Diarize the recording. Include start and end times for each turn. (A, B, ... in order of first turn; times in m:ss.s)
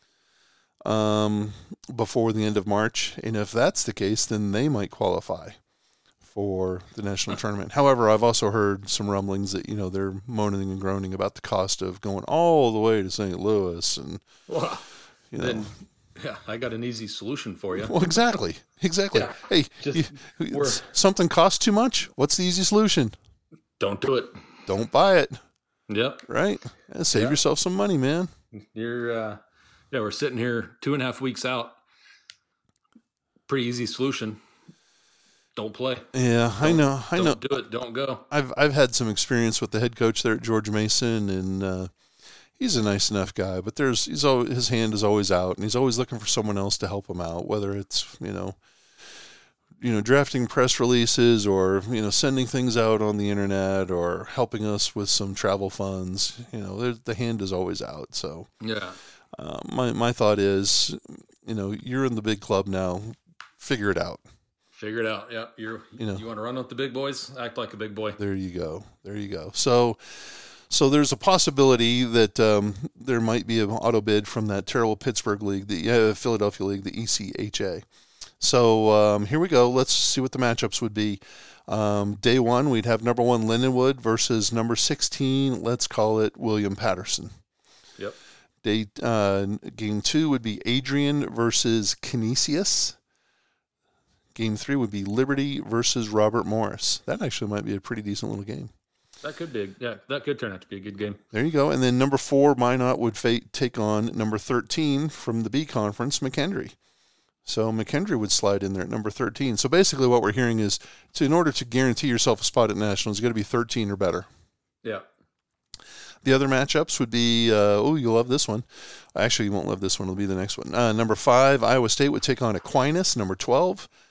0:00.8-0:05.6 A
0:06.2-0:14.2 A
0:14.5-0:14.8 B
0:15.3-0:15.8 A
0:15.4-0:18.0 B
0:17.7-0:23.2 A
0:19.1-0:20.8 B
0:23.8-0:24.4 B
0:24.7-0:25.4 A
0:25.9-0:26.3 B
0:26.3-0:28.3 A
0:28.6-0:29.4 B
0:29.9-0:31.8 B
0:33.5-0:34.4 B
0:35.6-0:36.1 B
0:36.1-0:37.6 A
0:36.6-0:38.2 B
0:38.3-0:41.9 A
0:42.6-0:48.6 A
0:49.8-0:58.5 A
0:58.6-0:59.0 B
0:59.3-1:04.2 A
1:04.8-1:08.2 B
1:06.0-1:06.2 A
1:08.2-1:17.8 A
1:18.4-1:27.3 A
1:28.6-1:33.0 A
1:34.4-1:38.7 A
1:39.2-1:41.2 B
1:41.3-1:46.8 A
1:47.4-1:54.3 A
1:56.2-2:03.9 A